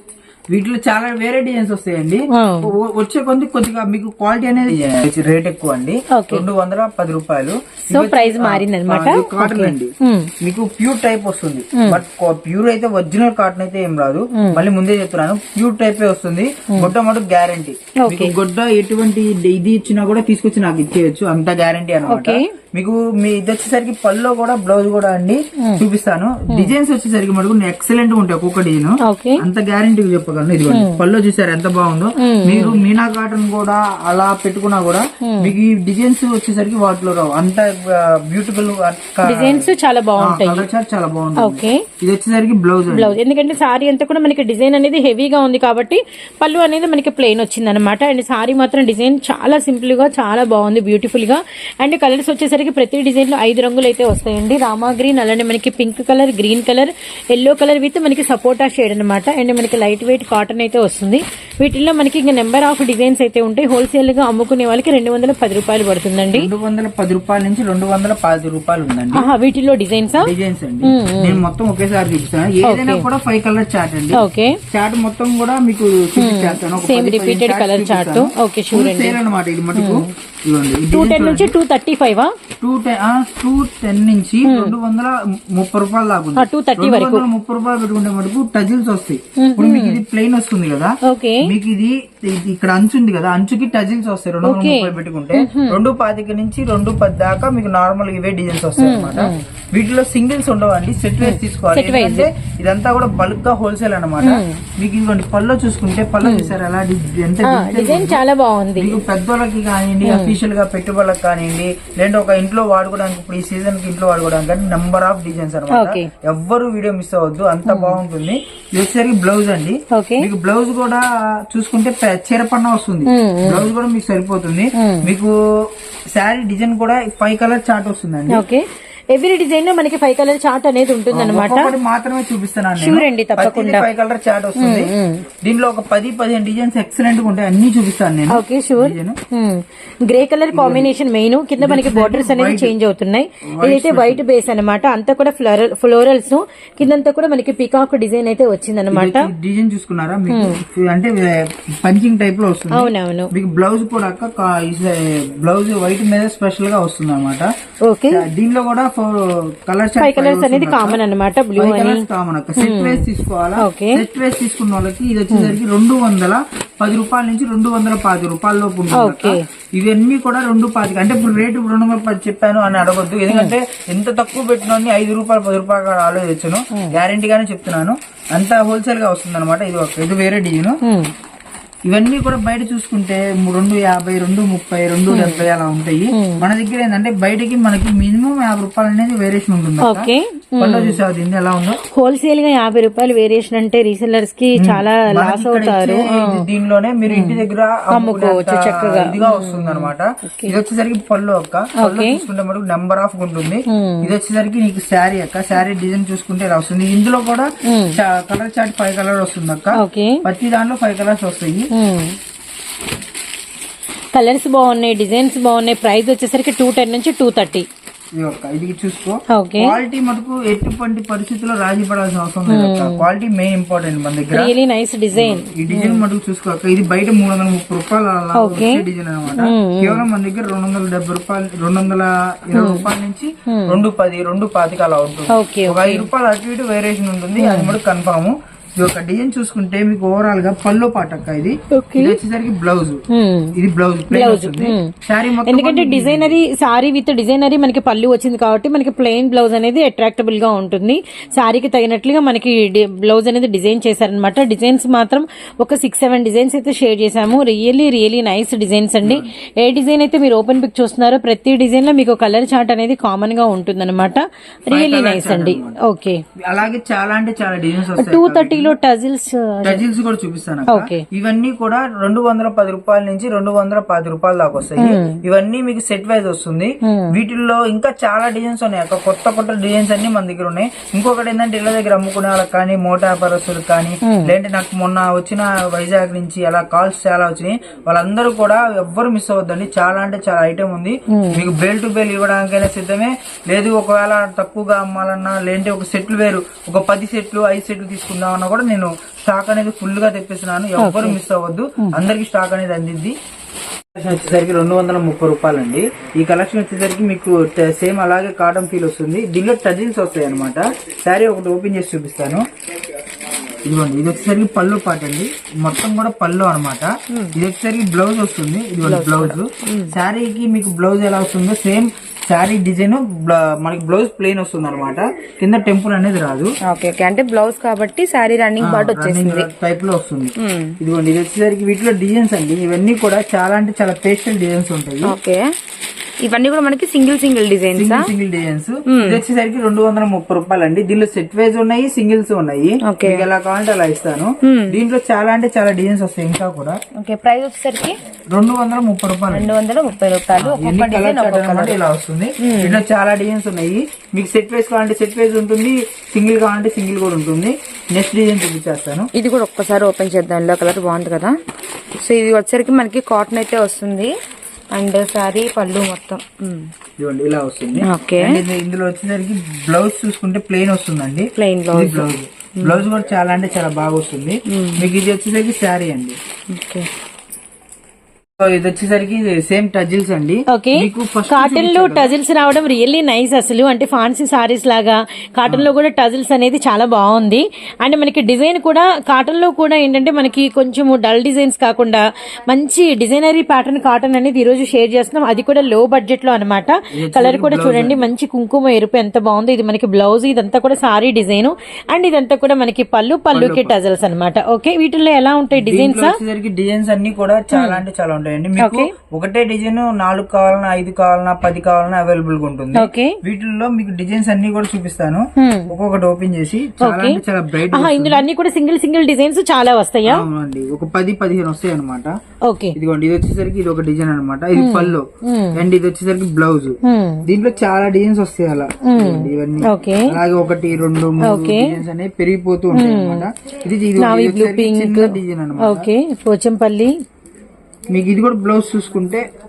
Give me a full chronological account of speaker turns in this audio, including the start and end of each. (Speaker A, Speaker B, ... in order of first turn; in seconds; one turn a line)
Speaker A: 0.5-43.2
Speaker B: 2.3-2.7
Speaker B: 6.1-6.5
Speaker B: 7.9-10.3
Speaker B: 11.7-12.0
Speaker B: 14.3-14.6
Speaker B: 18.0-18.3
Speaker B: 22.1-22.5
Speaker B: 29.0-29.4
Speaker B: 30.7-31.0
Speaker B: 32.2-32.8
Speaker B: 35.2-35.5
Speaker B: 39.2-40.7
Speaker B: 41.4-41.9
Speaker B: 42.9-66.5
Speaker A: 66.3-69.3
Speaker B: 69.1-70.3
Speaker A: 70.2-81.5
Speaker B: 70.8-71.4
Speaker B: 72.6-73.1
Speaker B: 74.1-74.6
Speaker B: 76.2-79.2
Speaker B: 79.8-80.1
Speaker B: 80.9-82.3
Speaker A: 82.6-108.2
Speaker B: 84.5-84.8
Speaker B: 86.4-87.3
Speaker B: 89.4-90.0
Speaker B: 91.0-91.5
Speaker B: 94.4-95.8
Speaker B: 98.8-99.4
Speaker B: 101.2-102.3
Speaker B: 104.2-104.6
Speaker B: 106.2-106.5
Speaker B: 107.5-109.0
Speaker A: 108.8-128.4
Speaker B: 110.0-110.4
Speaker B: 115.7-116.1
Speaker B: 117.7-118.0
Speaker B: 119.9-120.3
Speaker B: 123.1-123.7
Speaker B: 124.8-125.1
Speaker B: 128.3-131.7
Speaker A: 131.1-134.9
Speaker B: 132.8-133.9
Speaker B: 134.6-135.3
Speaker A: 135.4-139.2
Speaker B: 138.3-149.3
Speaker A: 140.5-140.9
Speaker A: 141.6-142.7
Speaker A: 143.5-144.2
Speaker A: 148.9-157.5
Speaker B: 150.3-150.6
Speaker B: 152.7-153.3
Speaker B: 157.8-158.3
Speaker A: 158.1-161.0
Speaker B: 160.0-162.1
Speaker A: 161.6-180.8
Speaker B: 162.6-164.0
Speaker B: 165.3-165.6
Speaker B: 168.9-169.4
Speaker B: 180.8-181.1
Speaker A: 181.9-191.8
Speaker B: 185.1-185.4
Speaker B: 186.1-186.4
Speaker B: 189.8-191.0
Speaker B: 191.8-196.4
Speaker A: 194.6-211.7
Speaker B: 197.1-200.6
Speaker B: 201.8-202.2
Speaker B: 203.7-204.1
Speaker B: 207.7-208.0
Speaker B: 209.7-210.2
Speaker B: 211.7-212.2
Speaker B: 214.1-217.7
Speaker A: 218.1-224.5
Speaker B: 219.3-219.8
Speaker B: 222.5-223.1
Speaker B: 224.3-226.0
Speaker A: 225.2-243.0
Speaker B: 228.3-230.1
Speaker B: 232.5-232.9
Speaker B: 233.5-233.8
Speaker B: 235.3-236.1
Speaker B: 237.4-237.8
Speaker B: 241.7-242.2
Speaker B: 243.1-243.6
Speaker A: 243.6-246.4
Speaker B: 244.1-266.2
Speaker A: 259.0-259.3
Speaker A: 264.7-265.8
Speaker A: 266.4-268.7
Speaker B: 268.0-269.8
Speaker A: 269.6-303.2
Speaker B: 270.7-271.0
Speaker B: 274.8-275.2
Speaker B: 276.8-277.1
Speaker B: 284.0-284.3
Speaker B: 291.1-291.4
Speaker B: 300.8-301.2
Speaker A: 303.9-312.5
Speaker A: 313.6-326.5
Speaker C: 318.9-319.9
Speaker C: 326.6-329.5
Speaker A: 328.6-335.1
Speaker C: 330.4-330.8
Speaker C: 335.0-335.4
Speaker C: 336.2-338.1
Speaker A: 337.7-346.8
Speaker C: 338.9-339.2
Speaker C: 342.9-343.3
Speaker C: 344.4-344.8
Speaker C: 346.9-348.0
Speaker A: 348.3-349.6
Speaker C: 349.3-351.8
Speaker A: 350.4-359.1
Speaker C: 352.4-352.8
Speaker C: 359.1-361.4
Speaker C: 362.0-364.1
Speaker C: 364.7-366.7
Speaker A: 367.0-376.2
Speaker C: 367.8-368.4
Speaker C: 371.4-372.8
Speaker C: 374.5-374.9
Speaker C: 376.5-376.9
Speaker A: 378.4-382.1
Speaker B: 380.5-406.2
Speaker A: 396.9-398.1
Speaker A: 403.3-403.7
Speaker A: 405.5-418.3
Speaker B: 407.5-407.8
Speaker B: 408.6-408.9
Speaker B: 412.8-413.2
Speaker B: 415.4-415.7
Speaker B: 416.8-420.2
Speaker A: 420.1-422.1
Speaker B: 422.5-422.8
Speaker A: 422.8-435.9
Speaker B: 424.6-425.6
Speaker B: 426.8-427.3
Speaker B: 428.8-430.2
Speaker B: 431.2-431.8
Speaker B: 432.7-433.3
Speaker B: 434.0-437.0
Speaker A: 437.9-439.3